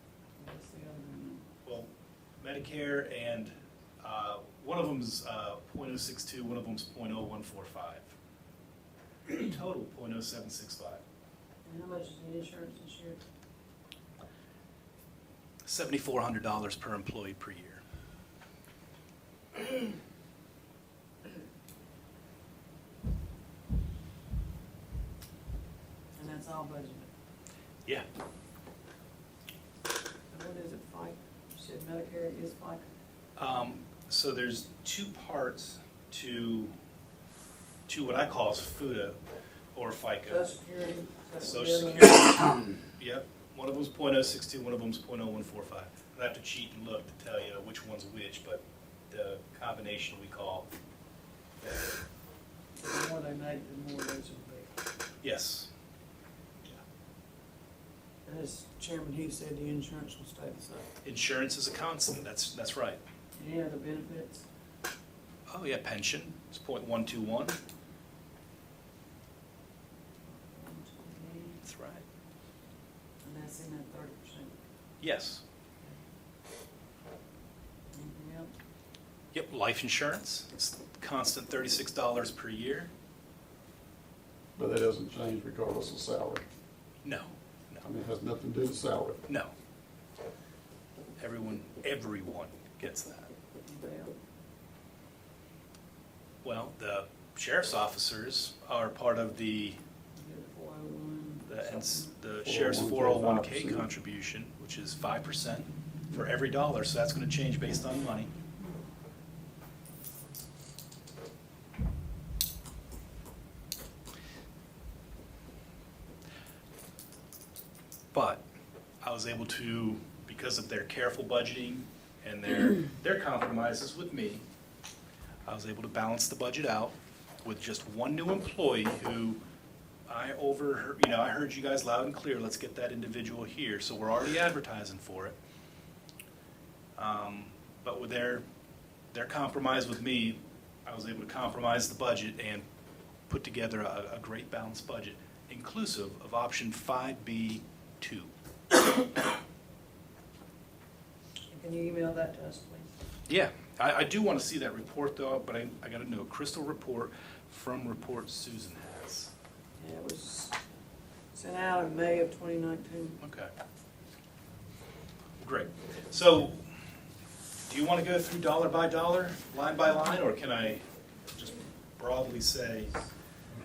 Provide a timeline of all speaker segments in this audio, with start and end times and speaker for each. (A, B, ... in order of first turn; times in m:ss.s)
0:00.4-0:01.4 A
0:01.6-0:08.1 B
0:09.3-0:11.0 B
0:11.6-0:13.2 A
0:15.7-0:17.8 B
0:26.2-0:27.1 A
0:30.3-0:32.8 A
0:33.4-0:36.7 B
0:37.9-0:39.2 B
0:39.7-0:40.6 B
0:40.3-0:42.6 A
0:41.4-0:50.7 B
0:51.6-0:51.9 B
0:52.8-0:54.7 A
0:55.2-0:55.7 B
0:58.2-1:00.9 A
1:01.0-1:03.0 B
1:03.4-1:04.4 A
1:05.5-1:07.6 B
1:10.3-1:11.6 A
1:11.6-1:12.0 B
1:13.2-1:14.6 A
1:15.0-1:15.4 B
1:17.9-1:18.5 A
1:19.3-1:22.9 B
1:24.6-1:26.4 C
1:27.0-1:27.8 B
1:27.8-1:29.2 C
1:29.3-1:29.5 B
1:31.2-1:33.3 B
1:33.6-1:34.1 A
1:36.4-1:39.8 B
1:40.2-1:42.1 A
1:41.5-1:48.3 B
1:42.4-1:43.9 C
1:58.1-1:58.4 B
1:59.0-2:04.4 B
2:05.4-2:09.4 B
2:10.1-2:15.4 B
2:17.0-2:18.4 B
2:19.1-2:22.6 B
2:23.3-2:28.3 B
2:31.5-2:32.9 A
2:33.3-2:39.3 B
2:39.8-2:40.5 A
2:41.3-2:43.2 A
2:43.2-2:43.5 B
2:45.4-2:46.7 B
2:47.6-2:52.9 B